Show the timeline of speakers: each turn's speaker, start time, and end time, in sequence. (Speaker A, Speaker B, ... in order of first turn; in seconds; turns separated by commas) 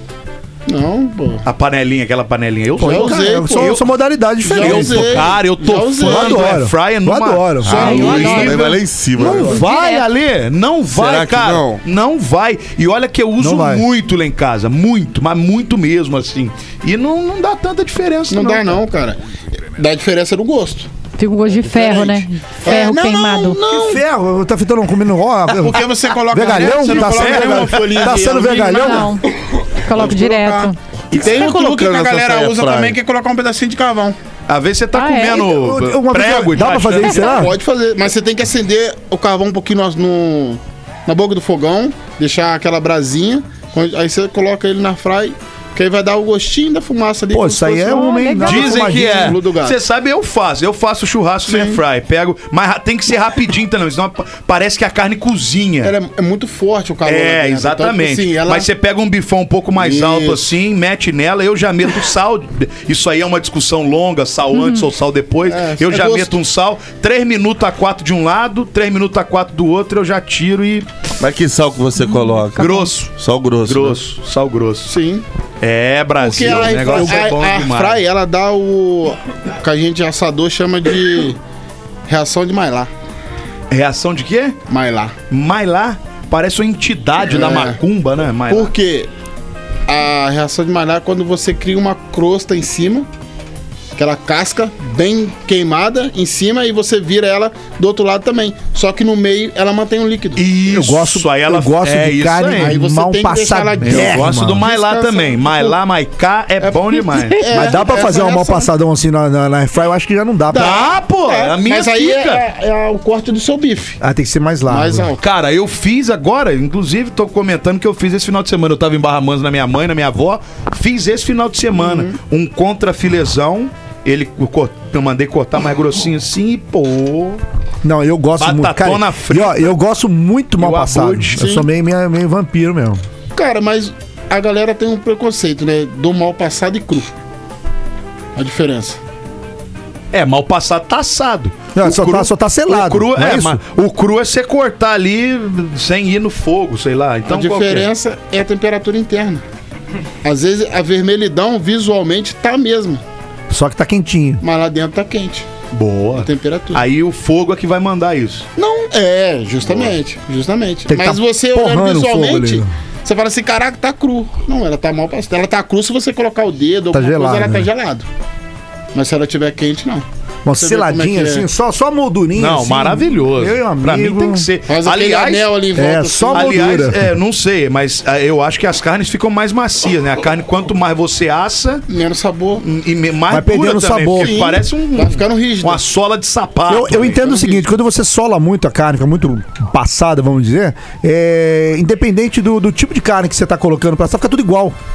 Speaker A: 0.7-1.4, Speaker B: 1.4-3.9, Speaker C: 2.8-5.3, Speaker A: 2.8-3.8, Speaker A: 4.4-6.5, Speaker B: 4.5-18.8, Speaker C: 6.0-8.0, Speaker A: 7.6-8.7, Speaker D: 7.7-9.7, Speaker E: 7.9-8.5, Speaker C: 9.2-9.5, Speaker E: 9.7-10.1, Speaker D: 10.9-11.8, Speaker C: 13.4-13.8, Speaker A: 18.3-19.2, Speaker A: 19.7-20.9, Speaker E: 21.2-23.6, Speaker A: 21.5-24.0, Speaker C: 23.7-29.1, Speaker A: 25.5-29.2, Speaker B: 26.9-28.1, Speaker E: 28.8-29.3, Speaker E: 29.8-30.8, Speaker A: 29.9-34.1, Speaker D: 31.1-33.0, Speaker B: 34.5-37.2, Speaker E: 34.9-35.4, Speaker C: 35.3-37.5, Speaker A: 37.0-49.8, Speaker C: 47.3-49.4, Speaker B: 48.4-55.9, Speaker A: 51.4-51.8, Speaker A: 55.8-58.7, Speaker B: 57.0-70.9, Speaker A: 59.8-60.5, Speaker E: 64.5-64.8, Speaker A: 65.5-66.4, Speaker D: 71.2-74.0, Speaker B: 72.6-73.1, Speaker B: 73.6-74.9, Speaker A: 74.9-75.2, Speaker B: 75.6-78.0, Speaker A: 76.2-81.4, Speaker C: 76.5-77.2, Speaker A: 82.1-82.9, Speaker B: 83.7-84.6, Speaker A: 84.7-85.1, Speaker B: 85.3-88.7, Speaker A: 87.3-87.8, Speaker A: 88.5-89.1, Speaker A: 89.9-93.1, Speaker A: 93.9-100.4, Speaker B: 100.4-102.7, Speaker C: 100.7-104.6, Speaker A: 102.6-105.8, Speaker B: 103.8-107.5, Speaker A: 106.6-108.7, Speaker C: 107.5-110.7, Speaker A: 110.5-114.0, Speaker B: 110.5-112.4, Speaker C: 114.0-115.1, Speaker A: 114.7-115.2, Speaker B: 115.2-127.4, Speaker A: 121.8-122.1, Speaker C: 127.8-133.0, Speaker B: 128.4-129.8, Speaker B: 130.6-131.4, Speaker A: 131.3-131.7, Speaker A: 133.3-137.1, Speaker A: 138.3-139.0, Speaker B: 140.1-147.9, Speaker C: 141.7-143.6, Speaker A: 147.2-149.4, Speaker A: 150.2-153.0, Speaker C: 153.5-154.4, Speaker A: 154.4-155.5, Speaker B: 155.7-158.4, Speaker A: 156.1-156.8, Speaker A: 158.6-168.1, Speaker C: 160.9-162.7, Speaker C: 166.9-167.7, Speaker A: 168.9-171.5, Speaker C: 170.4-174.5, Speaker B: 172.3-175.5, Speaker A: 174.7-176.7, Speaker C: 175.7-177.1, Speaker B: 176.3-181.8, Speaker A: 181.9-182.6, Speaker B: 182.6-187.2, Speaker C: 183.3-184.4, Speaker A: 184.1-185.8, Speaker C: 186.7-194.8, Speaker A: 187.0-187.7